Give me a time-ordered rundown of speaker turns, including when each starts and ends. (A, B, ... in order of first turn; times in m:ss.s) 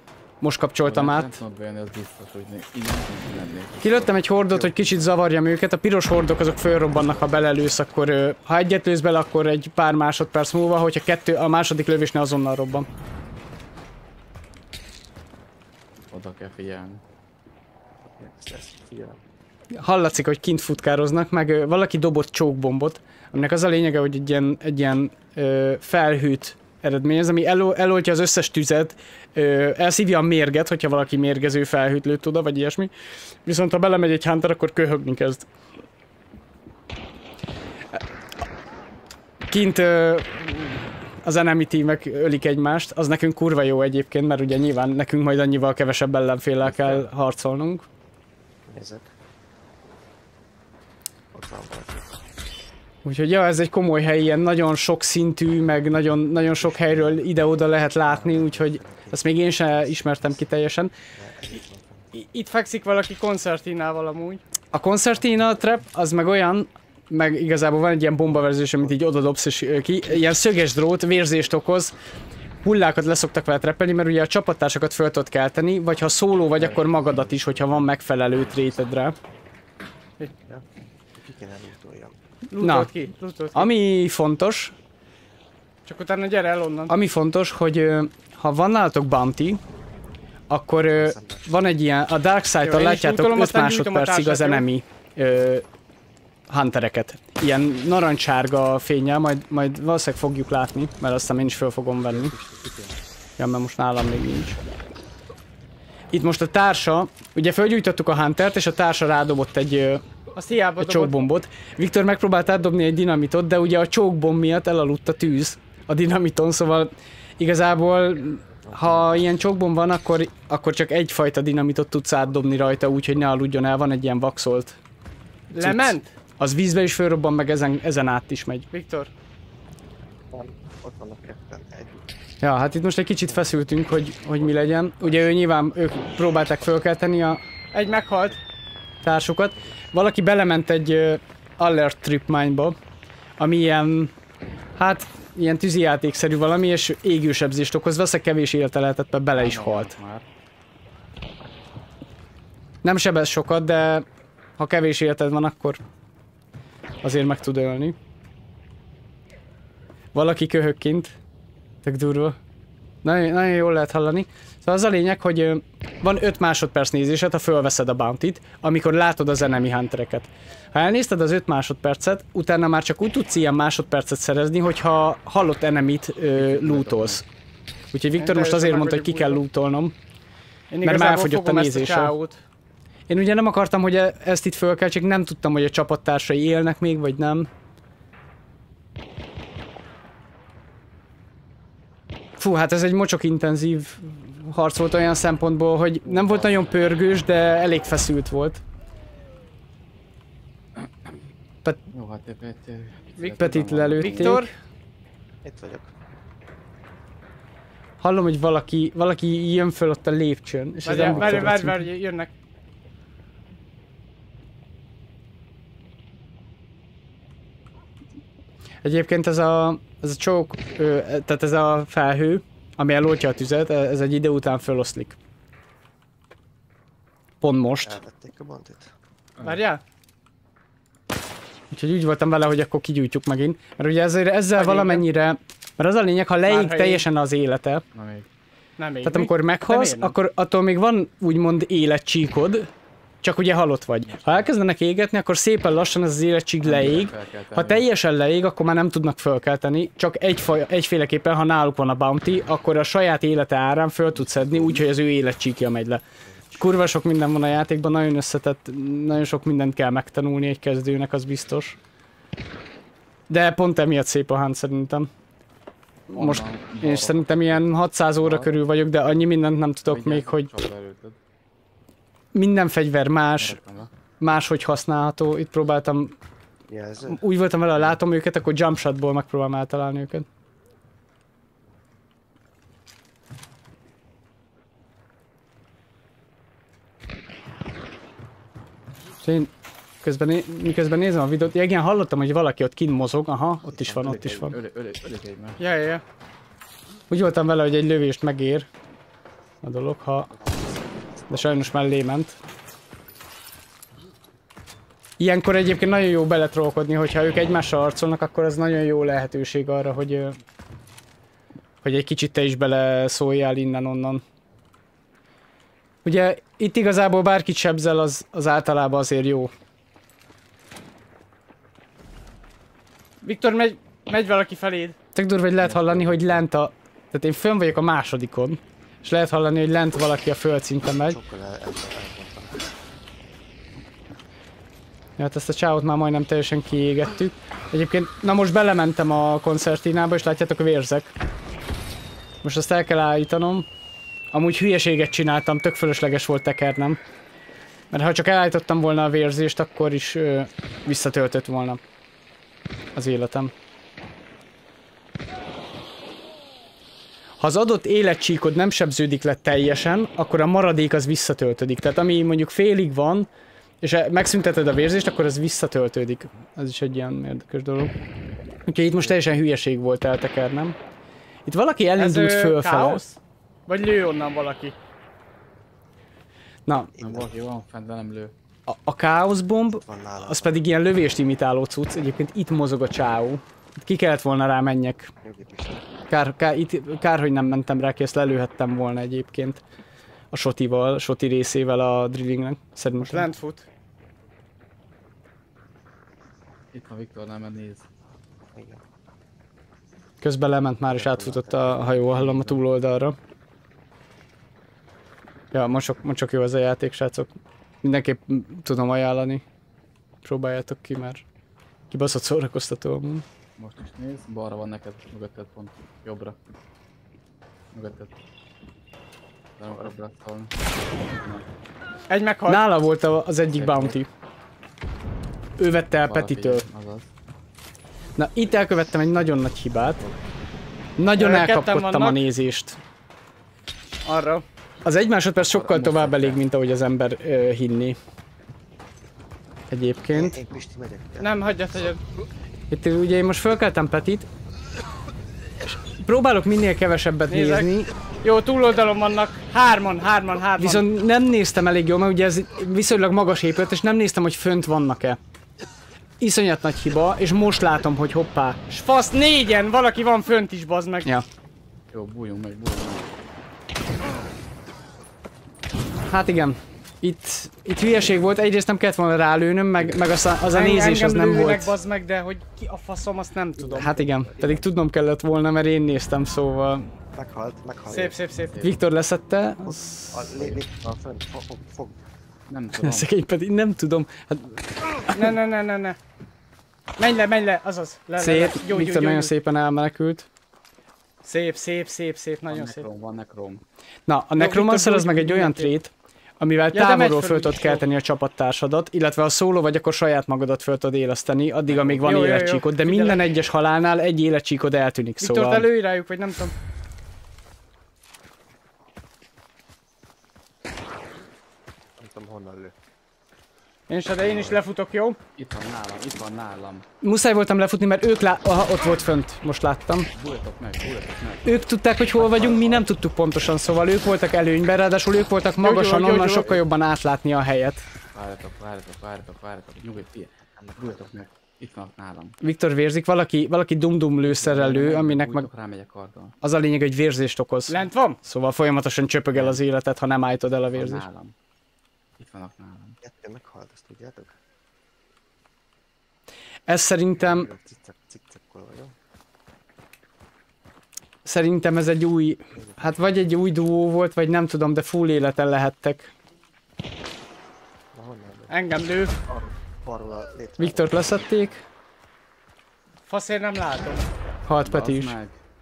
0:00.4-0:01.4 A
0:00.8-0:04.2 B
0:03.8-0:12.9 A
0:07.0-0:07.3 B
0:16.1-0:17.0 B
0:18.0-0:19.2 C
0:19.7-0:32.9 A
0:33.4-0:35.5 A
0:39.5-0:47.8 A
0:46.7-0:47.0 B
0:48.7-0:49.1 C
0:51.3-0:52.1 C
0:53.0-1:00.9 A
0:56.3-1:00.4 C
1:01.1-1:02.2 C
1:02.1-1:04.4 D
1:04.7-1:11.9 A
1:12.6-1:19.2 A
1:16.6-1:17.8 C
1:20.4-1:22.2 C
1:22.5-1:23.7 D
1:22.6-1:22.9 A
1:23.5-1:24.7 A
1:25.8-1:26.9 D
1:26.9-1:29.6 A
1:30.5-1:35.6 A
1:30.9-1:31.5 C
1:32.6-1:34.6 D
1:36.5-1:42.3 A
1:42.0-1:43.0 C
1:43.4-1:44.6 A
1:46.1-1:50.0 A
1:50.3-1:51.3 D
1:50.8-2:04.8 A
1:58.6-1:59.2 C
2:05.5-2:06.1 D
2:05.6-2:08.7 A
2:08.7-2:09.1 D
2:10.3-2:12.1 C
2:12.4-2:17.4 A
2:15.0-2:15.3 C
2:17.7-2:18.4 D
2:19.0-2:22.8 A
2:23.4-2:24.1 A
2:24.8-2:29.9 A
2:29.3-2:30.2 B
2:32.8-2:34.0 A
2:34.6-2:35.8 A
2:37.0-2:38.0 A
2:40.1-2:41.1 A
2:41.8-2:42.4 A
2:43.0-2:57.2 A
2:56.4-2:57.2 B
2:57.9-3:00.0 A
2:58.2-2:59.4 D
3:00.7-3:02.4 D
3:00.8-3:02.1 A
3:03.1-3:07.5 A
3:12.4-3:18.6 A
3:16.0-3:16.7 B
3:21.9-3:24.4 B
3:23.2-3:24.5 D
3:23.3-3:24.5 A
3:25.4-3:25.9 C
3:28.0-3:31.8 A
3:30.8-3:32.3 D
3:30.9-3:31.6 B
3:38.8-3:45.2 A
3:47.4-3:48.0 A
3:47.8-3:48.9 C
3:49.4-3:49.8 D
3:51.7-3:57.8 A
3:54.5-3:55.1 D
3:56.4-3:57.1 D
3:57.9-3:58.3 B
3:58.8-4:00.1 D
3:59.0-4:02.7 A
4:03.2-4:21.8 A
4:06.6-4:07.8 B
4:14.1-4:14.8 B
4:23.3-4:25.1 A
4:26.1-4:30.5 A
4:26.1-4:28.6 B
4:29.8-4:31.2 B
4:32.3-4:33.6 A
4:33.4-4:33.9 B
4:34.2-4:36.1 A
4:36.7-4:37.2 C
4:37.1-4:40.3 A
4:49.2-4:49.5 A
4:50.0-4:54.6 A
4:53.6-4:54.4 C
4:54.0-4:55.6 B
4:55.6-4:56.0 D
4:57.1-4:58.7 A
4:59.6-5:00.3 A
5:00.3-5:01.7 C
5:01.3-5:02.4 A
5:05.2-5:10.4 A
5:11.8-5:14.2 A
5:16.0-5:19.5 A
5:23.2-5:25.0 D
5:25.1-5:31.2 A
5:25.6-5:26.4 B
5:31.0-5:32.7 C
5:35.2-5:41.1 A
5:42.4-5:43.7 A
5:44.3-5:47.0 A
5:47.9-5:51.8 A
5:52.9-5:53.5 A
5:57.4-6:03.3 A
6:03.8-6:07.9 A
6:08.7-6:10.8 A
6:11.4-6:13.0 A
6:12.0-6:14.8 D
6:16.6-6:16.9 A
6:16.9-6:17.3 C
6:17.0-6:18.3 B
6:18.7-6:25.1 A
6:19.8-6:20.6 C
6:25.2-6:25.9 C
6:26.1-6:29.6 A
6:30.3-6:33.3 A
6:33.0-6:33.7 D
6:36.7-6:37.8 B
6:38.5-6:38.8 C
6:40.2-6:43.2 A
6:41.0-6:42.6 B
6:41.2-6:41.7 C
6:45.5-6:47.3 A
6:47.8-6:49.4 A
6:50.2-6:51.2 A
6:51.9-6:53.2 A
6:53.6-6:56.4 B
6:57.7-6:58.1 B
6:59.6-7:01.4 B
7:02.1-7:02.6 D
7:02.5-7:04.1 A
7:03.5-7:04.0 B
7:05.6-7:06.7 A
7:06.0-7:07.1 B
7:08.2-7:10.0 A
7:11.0-7:12.8 A
7:11.2-7:12.2 D
7:14.0-7:14.4 D
7:14.8-7:18.0 A
7:15.4-7:16.4 B
7:19.7-7:20.4 A
7:20.1-7:21.6 C
7:21.2-7:22.0 D
7:22.7-7:24.3 A
7:26.0-7:27.9 A
7:27.3-7:30.8 D
7:30.6-7:35.2 A
7:36.2-7:38.7 A
7:38.7-7:41.1 D
7:41.9-7:43.1 B
7:46.1-7:51.7 A
7:49.8-7:50.1 B
7:50.5-7:54.1 D
7:53.7-7:56.9 A
7:54.2-7:54.7 C
7:57.1-7:58.2 C
7:57.9-7:58.6 D
7:58.6-8:00.4 A
7:59.7-8:02.0 C
8:02.5-8:03.1 B
8:02.8-8:05.4 A
8:05.1-8:06.0 D
8:07.0-8:09.3 D
8:08.2-8:10.3 A
8:11.2-8:12.9 D
8:12.5-8:13.6 B
8:14.1-8:25.7 A
8:14.4-8:15.8 D
8:16.7-8:17.8 D
8:21.7-8:22.1 B
8:22.0-8:23.2 D
8:25.2-8:26.5 D
8:32.0-8:32.7 C
8:33.9-8:35.2 D
8:34.2-8:34.6 C
8:35.4-8:36.8 B
8:37.0-8:40.1 A
8:40.1-8:41.6 B
8:41.4-8:47.8 A
8:42.1-8:42.9 B
8:45.6-8:46.6 D
8:46.2-8:46.6 B
8:48.1-8:52.4 B
8:50.4-8:51.2 C
8:52.4-8:55.5 A
8:54.2-8:56.3 B
8:56.4-9:01.0 A
8:57.7-8:58.2 D
8:59.3-8:59.6 B
9:00.7-9:01.3 B
9:02.2-9:03.0 B
9:03.0-9:04.3 C
9:06.7-9:07.5 A
9:07.2-9:08.9 C
9:11.2-9:16.1 A
9:17.9-9:18.7 C
9:18.5-9:19.2 D
9:19.3-9:21.5 C
9:20.6-9:21.6 A
9:23.1-9:24.1 D
9:24.4-9:25.2 A
9:24.6-9:25.4 B